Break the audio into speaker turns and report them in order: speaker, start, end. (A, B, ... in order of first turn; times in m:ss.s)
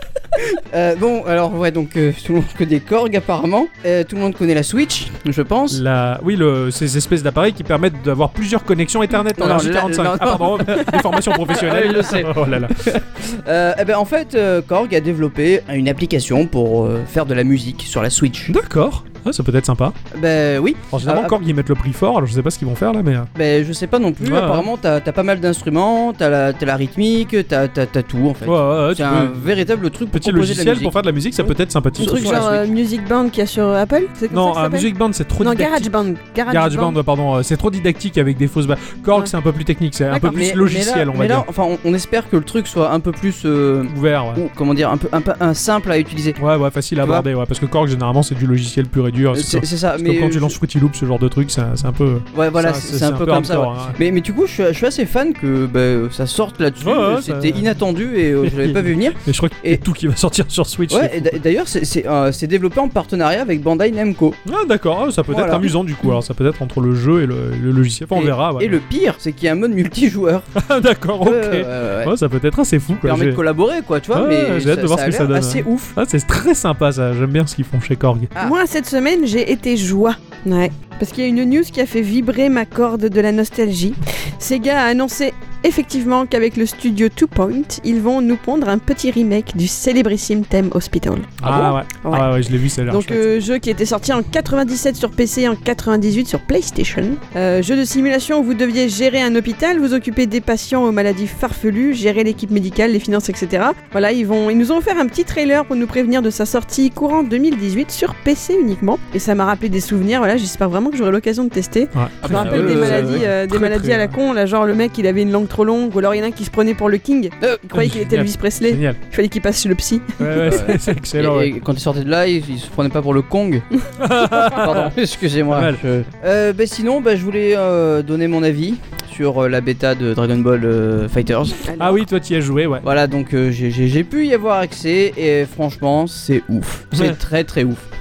0:00.4-0:05.8 A
0:05.7-0:12.9 B
0:09.3-0:18.5 A
0:18.5-0:20.0 B
0:20.1-0:21.4 A
0:20.9-0:23.3 B
0:23.3-0:31.0 A
0:24.2-0:24.7 B
0:28.4-0:29.5 B
0:30.1-0:32.6 B
0:32.0-0:34.9 C
0:32.0-0:32.5 A
0:34.3-0:35.9 B
0:35.4-0:37.0 C
0:36.5-0:41.4 B
0:40.1-0:40.4 C
0:40.2-0:46.4 A
0:43.9-0:44.4 B
0:46.4-0:54.0 B
0:47.0-0:47.2 A
0:49.3-0:50.6 A
0:52.3-0:59.8 A
0:56.8-0:57.6 B
0:58.4-1:01.4 B
1:00.9-1:04.4 A
1:04.4-1:08.8 B
1:05.3-1:05.7 A
1:08.1-1:10.5 A
1:10.5-1:13.4 B
1:11.2-1:12.1 A
1:13.0-1:16.0 A
1:14.1-1:18.3 B
1:18.4-1:32.3 C
1:31.4-1:33.4 B
1:32.9-2:00.6 C
1:51.9-1:54.1 B
1:52.2-1:53.2 A
1:57.4-1:57.8 A
1:57.7-1:59.0 B
2:00.2-2:01.5 B
2:00.4-2:03.6 A
2:04.0-2:04.9 B
2:04.3-2:11.8 A
2:05.5-2:05.8 B
2:11.8-2:12.8 B
2:12.8-2:17.8 A
2:16.9-2:17.2 B